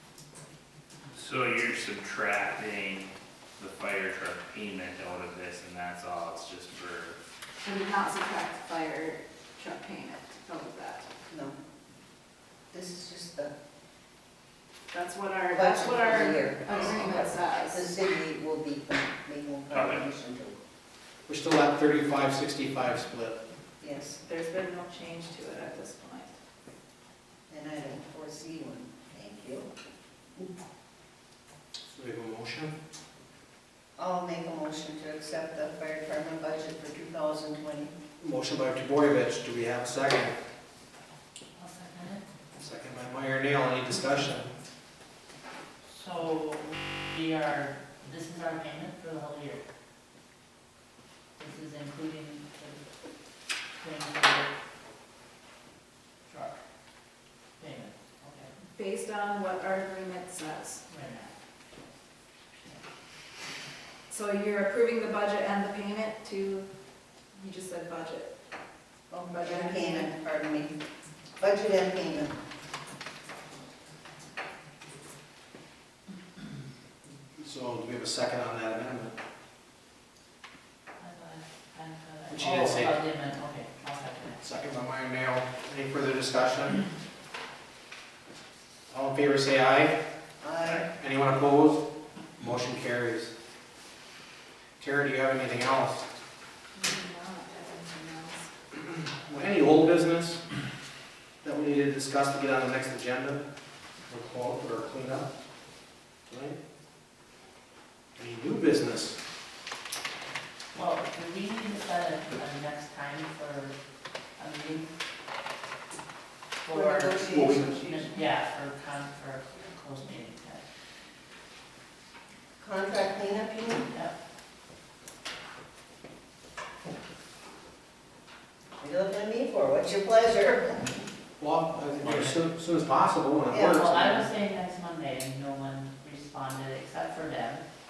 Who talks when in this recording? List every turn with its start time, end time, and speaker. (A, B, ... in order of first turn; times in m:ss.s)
0:01.1-0:07.2 A
0:07.6-0:11.1 B
0:12.7-0:13.5 C
0:14.9-0:17.8 B
0:15.5-0:20.6 C
0:19.7-0:20.0 A
0:21.3-0:23.4 D
0:23.8-0:24.2 C
0:24.2-0:26.3 B
0:27.5-0:29.7 C
0:31.9-0:32.7 D
0:34.0-0:37.9 C
0:38.2-0:40.3 D
0:41.6-0:42.2 E
0:42.6-0:44.5 D
0:45.9-0:49.6 E
0:51.4-0:52.8 E
0:53.7-0:54.5 E
0:56.3-0:56.6 E
0:57.6-0:58.5 E
0:58.7-1:00.8 B
1:00.9-1:01.3 E
1:04.1-1:06.7 B
1:07.4-1:08.3 B
1:09.1-1:10.7 C
1:09.3-1:10.1 B
1:11.4-1:12.4 C
1:17.4-1:19.2 D
1:21.0-1:24.4 E
1:22.3-1:23.0 D
1:24.4-1:26.8 D
1:28.9-1:30.0 D
1:30.4-1:30.9 C
1:30.9-1:31.8 D
1:32.4-1:33.3 D
1:34.8-1:36.1 D
1:36.8-1:38.5 B
1:38.8-1:40.4 D
1:41.4-1:43.4 D
1:44.1-1:45.3 D
1:46.3-1:46.6 D
1:48.2-1:49.2 D
1:50.7-1:53.8 E
1:54.4-1:54.9 E
1:56.6-1:57.2 E
1:56.7-1:58.1 C
1:57.3-1:57.8 D
1:57.9-2:00.6 E
2:02.6-2:03.9 C
2:08.8-2:11.0 C
2:11.4-2:14.2 D
2:13.5-2:13.9 C
2:13.7-2:17.6 E